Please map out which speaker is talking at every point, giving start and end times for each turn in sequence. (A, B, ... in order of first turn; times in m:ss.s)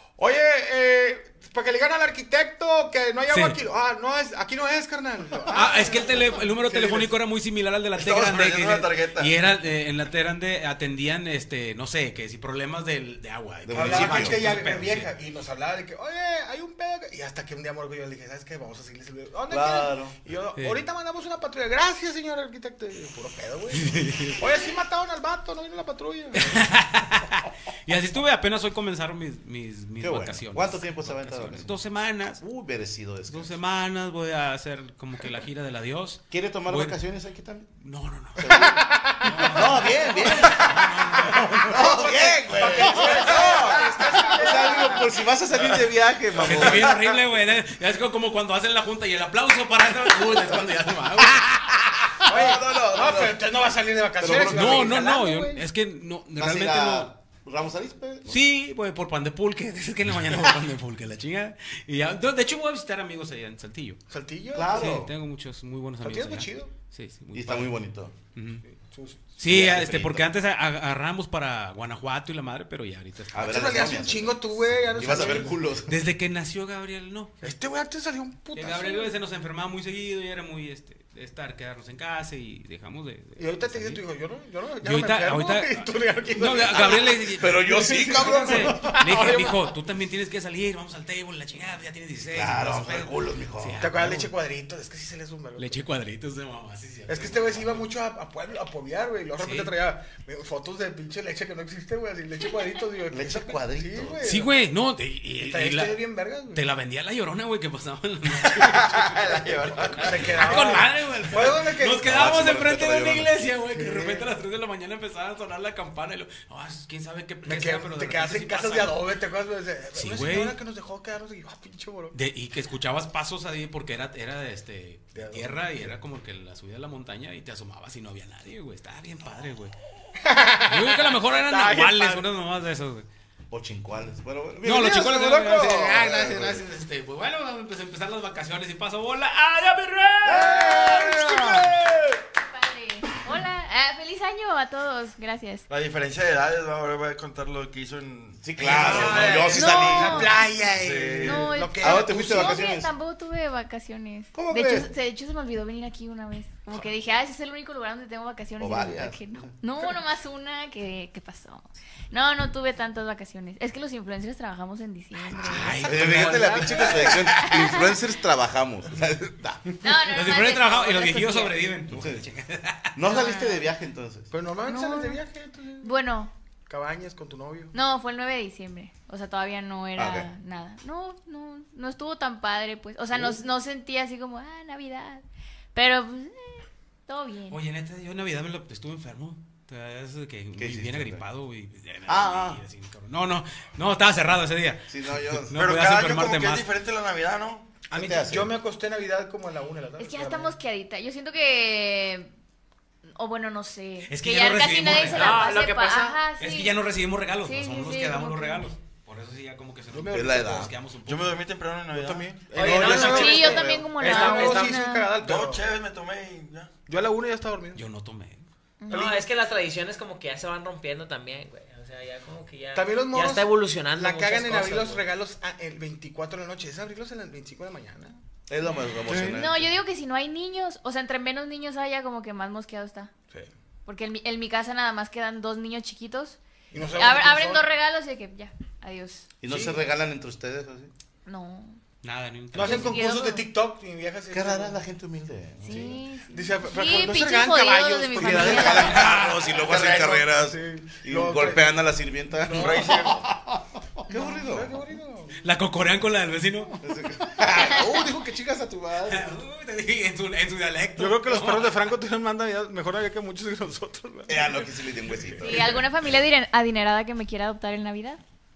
0:00.2-0:07.2 A
0:03.3-0:03.6 B
0:05.5-0:15.1 B
0:08.0-0:09.3 C
0:13.7-0:14.5 D
0:13.7-0:26.6 A
0:19.5-0:20.2 D
0:23.8-0:24.4 B
0:26.4-0:32.4 B
0:30.0-0:31.8 D
0:32.4-0:33.5 D
0:33.3-0:37.0 B
0:36.3-0:37.7 D
0:37.8-0:38.7 B
0:38.4-0:38.9 D
0:38.6-0:39.8 A
0:39.2-0:41.9 B
0:39.5-0:47.2 D
0:40.4-0:40.7 A
0:41.5-0:45.2 A
0:46.4-0:47.2 C
0:46.4-0:51.8 B
0:52.2-0:53.4 D
0:52.2-0:55.7 A
0:54.2-0:55.0 D
0:54.3-0:57.1 B
0:56.4-0:58.4 D
0:58.3-1:04.0 B
1:04.1-1:05.0 A
1:04.5-1:05.1 D
1:04.8-1:07.7 B
1:06.0-1:06.7 A
1:07.3-1:08.2 D
1:08.4-1:08.6 B
1:08.6-1:09.4 A
1:09.4-1:13.7 B
1:09.4-1:10.3 D
1:13.3-1:16.0 D
1:13.4-1:15.7 A
1:15.8-1:17.4 B
1:17.4-1:19.1 A
1:18.5-1:24.0 B
1:23.4-1:29.7 A
1:24.8-1:34.3 B
1:27.4-1:29.0 D
1:32.3-1:33.9 D
1:33.8-1:35.8 A
1:35.6-1:37.9 B
1:37.1-1:44.6 A
1:39.4-1:39.7 B
1:43.1-1:44.2 D
1:44.2-1:46.0 B
1:45.4-1:46.7 A
1:46.5-1:59.0 B
1:48.6-1:50.2 C
1:49.9-1:52.1 A
1:52.0-1:53.3 D
1:53.6-1:54.3 A
1:57.4-2:02.2 A
2:00.0-2:00.6 B
2:02.1-2:09.7 B
2:05.1-2:06.0 A
2:10.2-2:12.3 A
2:10.7-2:13.1 B
2:13.5-2:16.6 D
2:14.6-2:21.4 B
2:20.2-2:22.2 D
2:20.5-2:21.3 A
2:22.4-2:25.6 E
2:25.7-2:29.4 C
2:28.4-2:30.3 D
2:28.6-2:32.6 A
2:29.5-2:30.4 E
2:30.7-2:31.7 C
2:31.2-2:45.9 E
2:31.8-2:32.9 D
2:34.3-2:34.9 D
2:38.6-2:39.5 D
2:45.4-2:47.4 B
2:45.5-2:49.6 D
2:46.0-2:47.2 A
2:47.2-2:48.0 E
2:49.8-2:51.6 E
2:50.1-2:53.0 B
2:51.9-2:52.2 D
2:53.0-2:54.3 D
2:53.1-2:53.7 E
2:54.3-2:55.9 A
2:54.6-2:55.2 E
2:55.8-2:56.3 E
2:56.7-2:57.7 A
2:57.7-3:07.6 E
3:00.0-3:00.3 D
3:03.1-3:03.4 D
3:07.5-3:16.7 B
3:10.6-3:11.2 D
3:12.1-3:12.6 D
3:14.9-3:15.7 D
3:15.5-3:17.8 C
3:17.9-3:20.5 A
3:17.9-3:18.5 D
3:20.0-3:22.3 E
3:23.0-3:26.8 E
3:24.1-3:25.4 B
3:25.0-3:26.2 F
3:26.4-3:31.4 B
3:27.4-3:28.7 E
3:29.9-3:30.7 A
3:30.1-3:30.7 D
3:31.0-3:33.2 C
3:31.9-3:35.7 A
3:32.5-3:34.8 F
3:32.9-3:35.1 E
3:35.2-3:36.7 C
3:36.9-3:37.9 A
3:37.8-3:38.5 B
3:38.8-3:39.2 E
3:38.9-3:39.2 A
3:38.9-3:45.0 F
3:42.7-3:48.2 A
3:48.5-3:49.7 D
3:49.1-3:49.4 A
3:49.2-3:53.1 E
3:53.9-3:56.4 E
3:56.7-3:57.7 A
3:56.9-3:59.3 E
3:59.4-4:00.9 D
3:59.4-3:59.8 A
4:01.2-4:01.8 E
4:02.0-4:03.0 B
4:02.5-4:04.8 A
4:02.5-4:03.5 E
4:04.3-4:06.0 D
4:05.6-4:09.0 E
4:06.3-4:11.8 A
4:08.2-4:13.2 D
4:08.9-4:09.4 B
4:09.7-4:10.2 C
4:12.5-4:13.1 A
4:12.5-4:13.3 C
4:14.0-4:14.8 D
4:14.1-4:14.5 E
4:14.4-4:15.4 A
4:15.4-4:16.8 B
4:16.8-4:19.3 D
4:17.5-4:18.0 E
4:19.0-4:21.8 B
4:21.0-4:25.4 A
4:24.3-4:25.9 D
4:25.4-4:28.2 E